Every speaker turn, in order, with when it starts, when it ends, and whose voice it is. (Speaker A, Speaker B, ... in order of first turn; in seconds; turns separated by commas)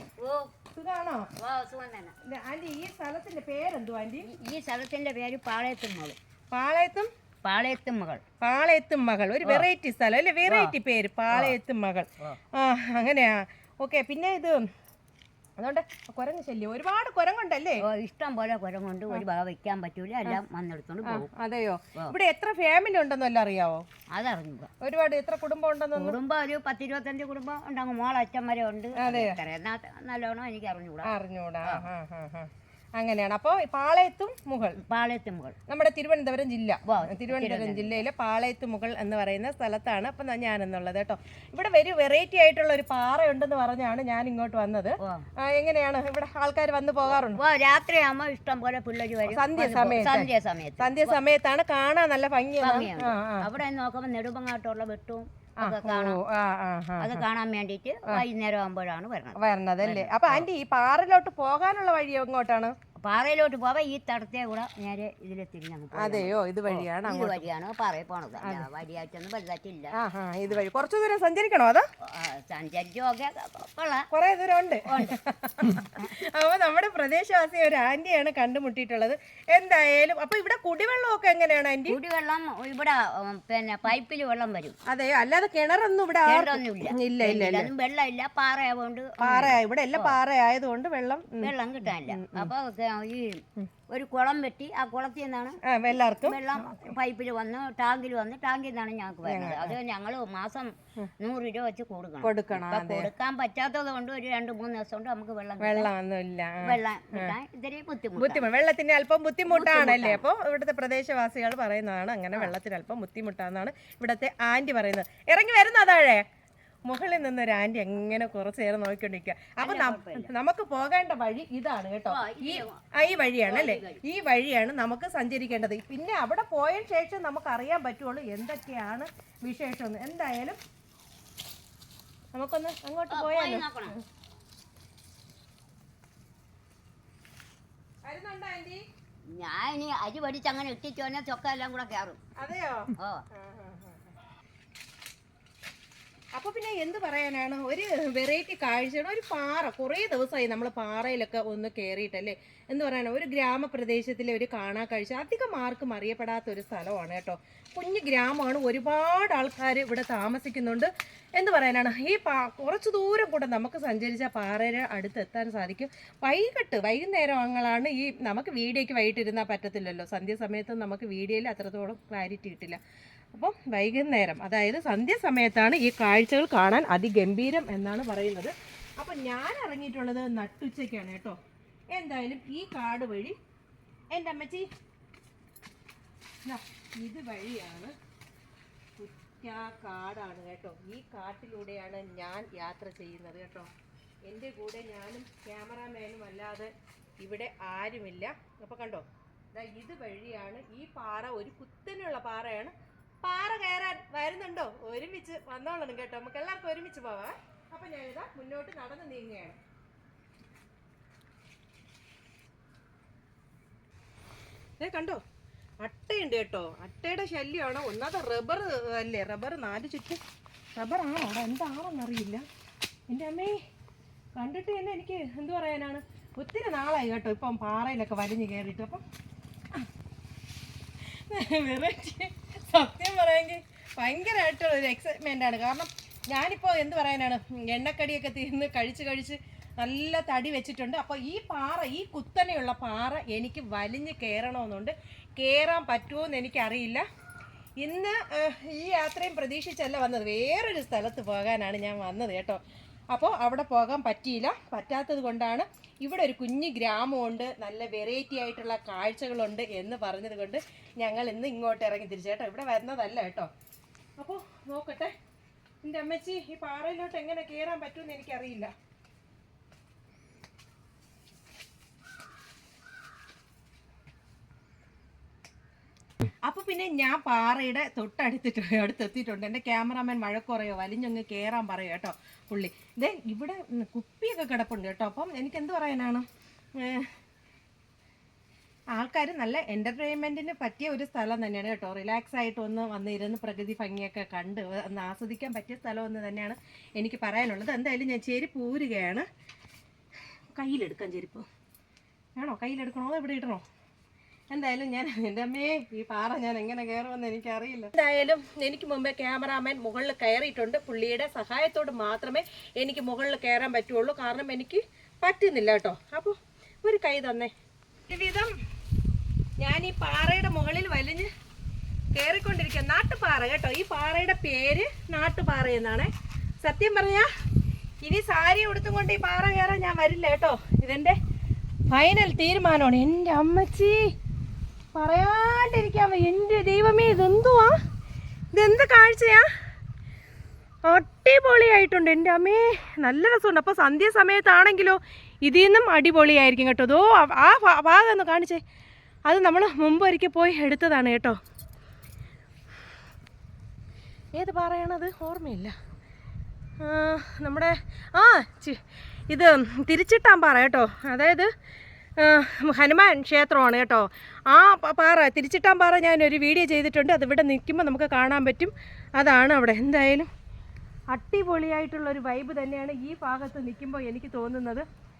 Speaker A: 0.2-0.5, Speaker B: 0.7-1.3, Speaker A: 1.4-2.1, Speaker B: 2.2-4.3, Speaker A: 4.2-6.2, Speaker B: 6.5-7.1, Speaker A: 7.4-8.2, Speaker B: 8.4-14.6, Speaker A: 10.4-10.7, Speaker A: 11.3-11.6, Speaker B: 15.6-17.8, Speaker A: 17.8-21.3, Speaker B: 21.0-23.8, Speaker A: 24.1-24.7, Speaker B: 24.8-26.2, Speaker A: 25.9-31.1, Speaker B: 29.0-29.4, Speaker B: 31.0-34.8, Speaker A: 34.8-35.5, Speaker B: 35.7-47.4, Speaker A: 36.9-38.0, Speaker A: 47.0-51.1, Speaker B: 49.3-50.3, Speaker B: 50.8-53.5, Speaker A: 52.6-56.2, Speaker B: 55.6-57.2, Speaker A: 57.0-60.5, Speaker B: 59.4-62.7, Speaker A: 63.0-69.9, Speaker B: 65.9-67.5, Speaker B: 68.4-68.7, Speaker B: 70.0-71.8, Speaker A: 72.1-74.1, Speaker B: 74.1-82.0, Speaker A: 74.9-75.2, Speaker A: 81.9-84.8, Speaker B: 84.9-87.7, Speaker A: 86.2-90.2, Speaker B: 89.2-92.5, Speaker A: 91.4-95.6, Speaker B: 95.6-96.9, Speaker A: 96.2-105.9, Speaker B: 99.2-99.8, Speaker B: 102.2-103.1, Speaker B: 105.6-107.3, Speaker A: 106.6-108.5, Speaker B: 108.2-116.2, Speaker A: 109.5-110.2, Speaker B: 116.9-130.6, Speaker A: 119.6-120.3, Speaker A: 122.1-122.8, Speaker A: 123.4-124.0, Speaker B: 132.3-134.0, Speaker A: 133.1-133.9, Speaker B: 138.0-138.8, Speaker A: 139.3-142.2, Speaker B: 142.4-144.1, Speaker A: 143.0-143.2, Speaker B: 146.3-172.8, Speaker B: 173.3-181.4, Speaker B: 181.9-183.3, Speaker B: 184.1-184.7, Speaker B: 186.4-187.9, Speaker B: 189.0-193.7, Speaker B: 194.2-209.6, Speaker B: 214.8-215.2, Speaker B: 215.8-220.2, Speaker B: 220.8-222.4, Speaker B: 223.1-223.6, Speaker B: 224.3-229.0, Speaker B: 231.1-247.0, Speaker B: 247.8-252.6, Speaker B: 253.1-263.5, Speaker B: 264.2-265.1, Speaker B: 265.8-268.7, Speaker B: 276.4-286.2, Speaker B: 286.8-287.1, Speaker B: 288.9-299.2, Speaker B: 300.6-301.4, Speaker B: 302.4-303.6, Speaker B: 304.5-317.5, Speaker B: 318.1-318.5, Speaker B: 319.6-321.3, Speaker B: 322.1-326.1, Speaker B: 326.6-327.3, Speaker B: 328.0-331.1, Speaker B: 331.9-334.0, Speaker B: 334.9-337.8, Speaker B: 338.5-339.5, Speaker B: 340.9-348.6, Speaker B: 349.3-351.4, Speaker B: 354.4-355.7, Speaker B: 356.8-361.5, Speaker B: 362.2-370.3, Speaker B: 371.1-374.8